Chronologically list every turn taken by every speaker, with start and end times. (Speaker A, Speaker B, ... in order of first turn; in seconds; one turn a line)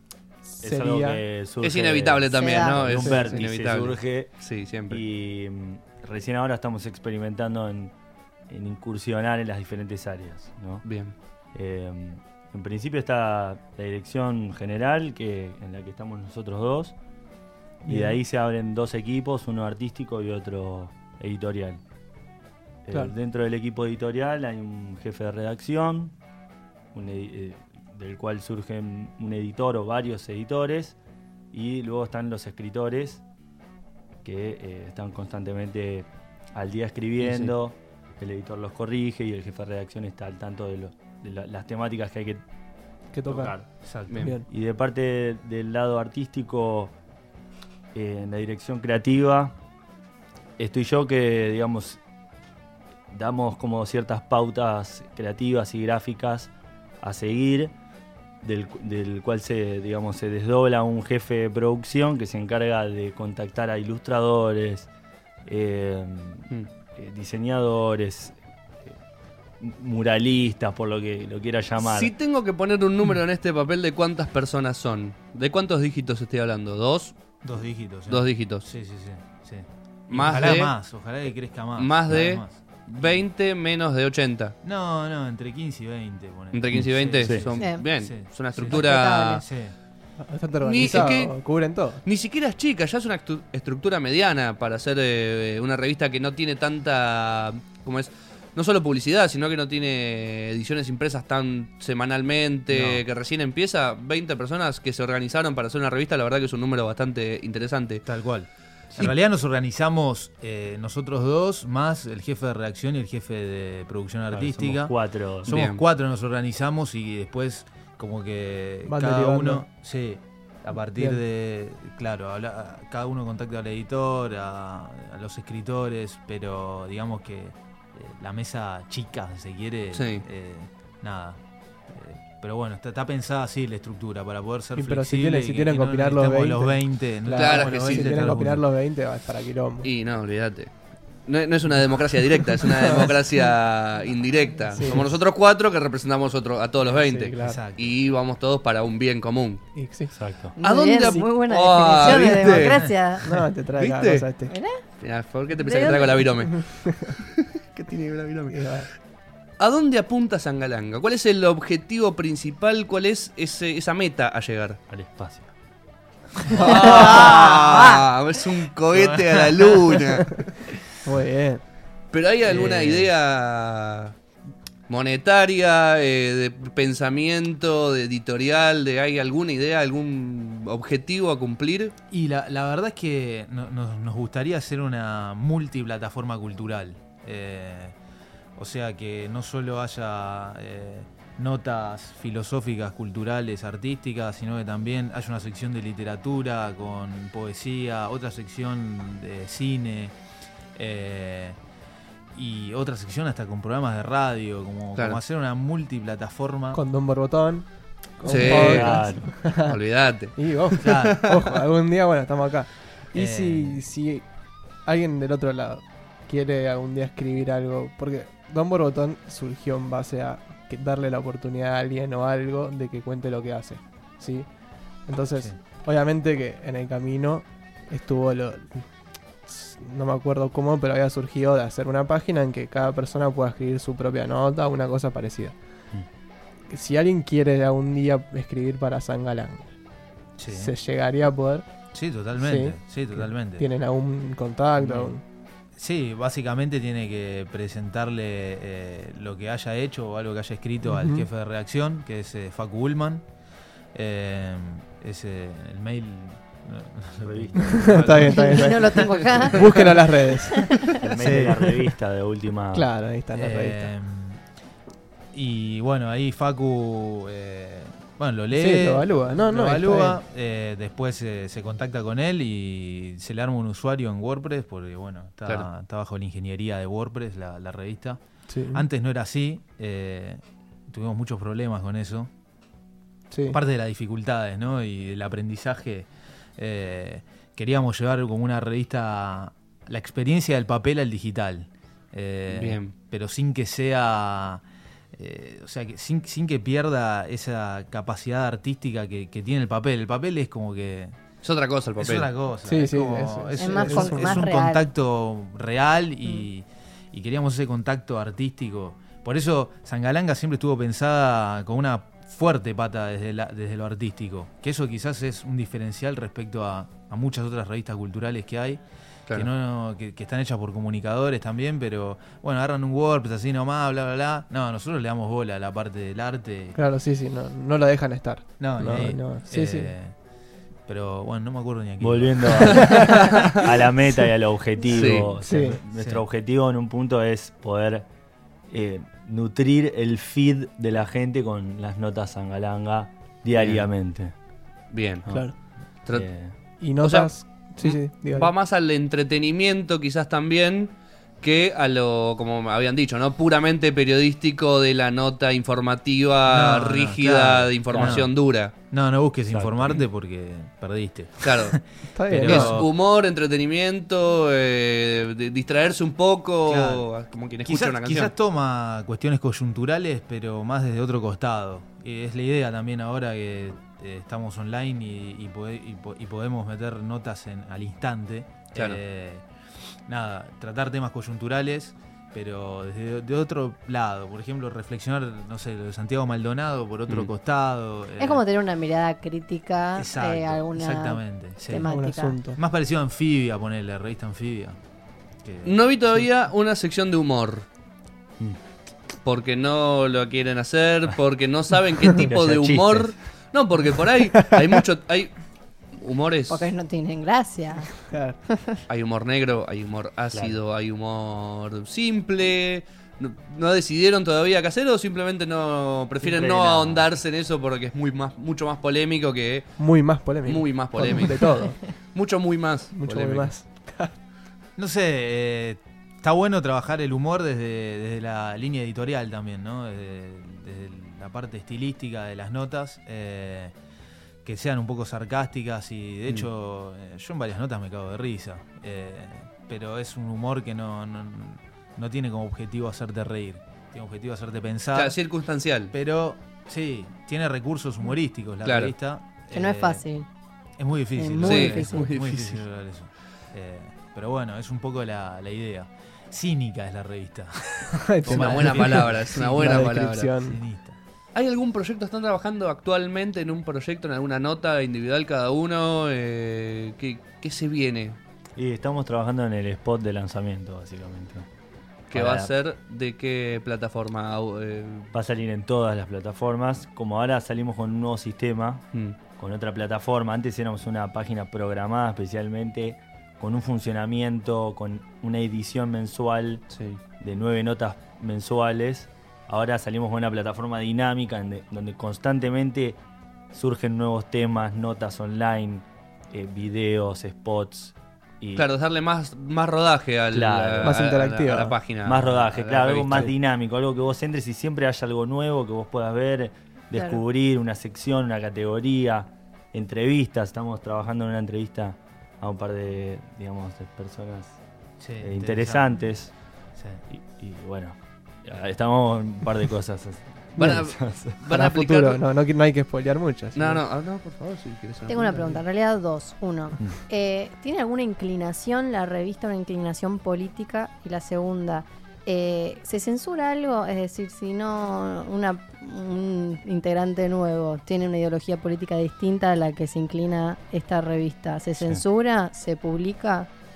Speaker A: 0.4-1.2
Speaker B: 0.6-4.3
Speaker C: 1.6-5.0
Speaker D: 2.3-2.8
Speaker A: 3.0-3.4
Speaker B: 4.9-7.9
Speaker B: 8.5-10.9
Speaker C: 10.8-11.2
Speaker B: 11.5-17.0
Speaker B: 17.8-21.8
Speaker A: 17.9-18.2
Speaker B: 22.9-26.1
Speaker B: 26.9-31.0
Speaker B: 31.5-33.2
Speaker B: 34.2-42.4
Speaker C: 37.2-37.5
Speaker A: 43.1-43.5
Speaker B: 43.3-43.7
Speaker E: 43.8-44.2
Speaker C: 44.1-44.4
Speaker A: 44.1-44.5
Speaker B: 44.5-46.9
Speaker B: 47.9-49.5
Speaker B: 50.6-52.0
Speaker B: 53.1-57.7
Speaker B: 58.4-64.9
Speaker B: 65.5-69.0
Speaker B: 69.6-72.1
Speaker C: 71.8-77.2
Speaker E: 77.4-83.2
Speaker C: 78.1-78.7
Speaker C: 80.1-80.8
Speaker C: 81.8-84.5
Speaker E: 84.6-89.8
Speaker C: 86.5-89.4
Speaker B: 86.7-87.5
Speaker D: 87.6-87.9
Speaker D: 88.6-89.4
Speaker A: 90.2-92.0
Speaker C: 90.6-91.3
Speaker C: 92.0-108.1
Speaker E: 102.7-103.0
Speaker E: 108.0-138.7
Speaker B: 114.3-115.6
Speaker C: 115.5-115.8
Speaker A: 118.9-119.7
Speaker A: 121.0-121.2
Speaker C: 129.9-130.3
Speaker A: 134.8-139.9
Speaker C: 137.3-138.3
Speaker C: 139.8-140.7
Speaker C: 141.2-149.6
Speaker A: 142.6-143.5
Speaker A: 144.7-145.1
Speaker A: 146.9-147.6
Speaker E: 147.4-147.9
Speaker A: 149.8-150.2
Speaker B: 150.1-150.6
Speaker D: 150.6-153.2
Speaker C: 150.6-152.8
Speaker A: 152.1-152.4
Speaker E: 152.4-152.9
Speaker A: 153.2-154.5
Speaker C: 153.8-154.3
Speaker D: 154.5-154.8
Speaker C: 155.0-158.8
Speaker D: 155.6-156.3
Speaker A: 156.6-157.2
Speaker A: 158.5-158.9
Speaker C: 159.6-164.8
Speaker B: 164.9-165.5
Speaker E: 166.5-168.0
Speaker C: 166.5-170.4
Speaker A: 166.7-167.1
Speaker E: 168.9-170.0
Speaker A: 171.0-171.6
Speaker C: 172.1-174.2
Speaker E: 172.5-173.1
Speaker C: 174.9-181.9
Speaker E: 182.1-188.0
Speaker E: 188.6-200.2
Speaker E: 200.8-201.6
Speaker E: 202.3-206.8
Speaker A: 206.7-209.8
Speaker C: 208.3-211.4
Speaker B: 208.3-209.4
Speaker E: 208.4-208.8
Speaker A: 210.4-214.3
Speaker E: 210.8-211.3
Speaker E: 213.1-213.8
Speaker A: 214.8-224.5
Speaker A: 225.1-228.8
Speaker E: 225.3-225.6
Speaker A: 229.5-235.6
Speaker A: 236.7-239.7
Speaker E: 240.4-240.7
Speaker A: 240.5-241.7
Speaker E: 241.9-243.7
Speaker A: 242.3-245.2
Speaker E: 244.8-245.2
Speaker E: 245.8-253.2
Speaker A: 250.8-251.3
Speaker E: 253.9-258.4
Speaker B: 257.2-258.3
Speaker A: 257.6-261.4
Speaker D: 258.3-259.8
Speaker D: 260.5-260.9
Speaker B: 260.9-262.9
Speaker E: 261.2-261.7
Speaker A: 262.7-263.9
Speaker E: 263.3-264.4
Speaker E: 265.3-282.3
Speaker A: 268.5-270.2
Speaker A: 278.5-278.9
Speaker A: 283.3-283.6
Speaker E: 283.5-294.6
Speaker C: 292.5-292.9
Speaker E: 295.1-301.2
Speaker C: 301.4-302.3
Speaker E: 302.0-318.8
Speaker A: 302.7-304.4
Speaker D: 303.6-304.9
Speaker E: 319.3-326.8
Speaker A: 326.8-329.9
Speaker E: 328.6-330.1
Speaker E: 330.9-332.9
Speaker B: 332.0-338.1
Speaker C: 332.7-333.6
Speaker A: 332.8-333.5
Speaker C: 334.9-335.3
Speaker E: 335.0-335.3
Speaker A: 335.4-335.8
Speaker E: 335.9-336.2
Speaker B: 338.7-344.3
Speaker C: 343.6-343.9
Speaker C: 344.9-358.7
Speaker A: 345.3-345.6
Speaker B: 346.1-346.6
Speaker A: 346.8-348.5
Speaker E: 356.5-358.3
Speaker B: 357.9-358.3
Speaker E: 358.9-362.9
Speaker B: 359.5-360.0
Speaker C: 361.4-361.8
Speaker A: 362.1-362.9
Speaker C: 362.3-368.3
Speaker E: 366.7-367.1
Speaker E: 367.6-379.5
Speaker C: 378.7-379.0
Speaker E: 380.1-388.4
Speaker D: 388.2-392.4
Speaker E: 390.0-391.9
Speaker A: 391.8-392.6
Speaker E: 392.6-394.8
Speaker E: 395.4-395.8
Speaker C: 395.6-397.7
Speaker C: 399.2-405.4
Speaker B: 402.3-403.1
Speaker A: 404.4-404.7
Speaker C: 405.9-406.7
Speaker D: 406.5-408.0
Speaker A: 408.0-408.4
Speaker D: 408.5-408.8
Speaker C: 408.9-423.5
Speaker B: 416.2-417.1
Speaker A: 419.8-421.9
Speaker A: 422.9-424.1
Speaker E: 424.8-433.8
Speaker E: 434.4-445.2
Speaker C: 444.9-445.9
Speaker E: 445.9-450.0
Speaker C: 448.6-448.9
Speaker D: 449.5-450.3
Speaker E: 450.8-461.0
Speaker D: 451.2-452.1
Speaker C: 451.4-452.6
Speaker A: 458.1-460.6
Speaker C: 458.3-460.3
Speaker C: 461.3-468.2
Speaker B: 468.6-471.5
Speaker C: 472.1-475.1
Speaker B: 472.1-472.5
Speaker B: 475.1-478.8
Speaker B: 479.4-486.6
Speaker C: 486.7-487.0
Speaker B: 487.2-493.0
Speaker B: 493.5-498.7
Speaker C: 498.6-503.3
Speaker B: 500.3-501.0
Speaker A: 500.8-501.8
Speaker B: 502.1-514.6
Speaker D: 506.9-507.2
Speaker E: 515.0-516.0
Speaker B: 515.2-516.3
Speaker E: 516.8-517.0
Speaker B: 517.1-521.4
Speaker A: 520.6-520.8
Speaker C: 520.6-522.2
Speaker A: 521.5-523.8
Speaker C: 523.6-525.6
Speaker D: 525.1-543.5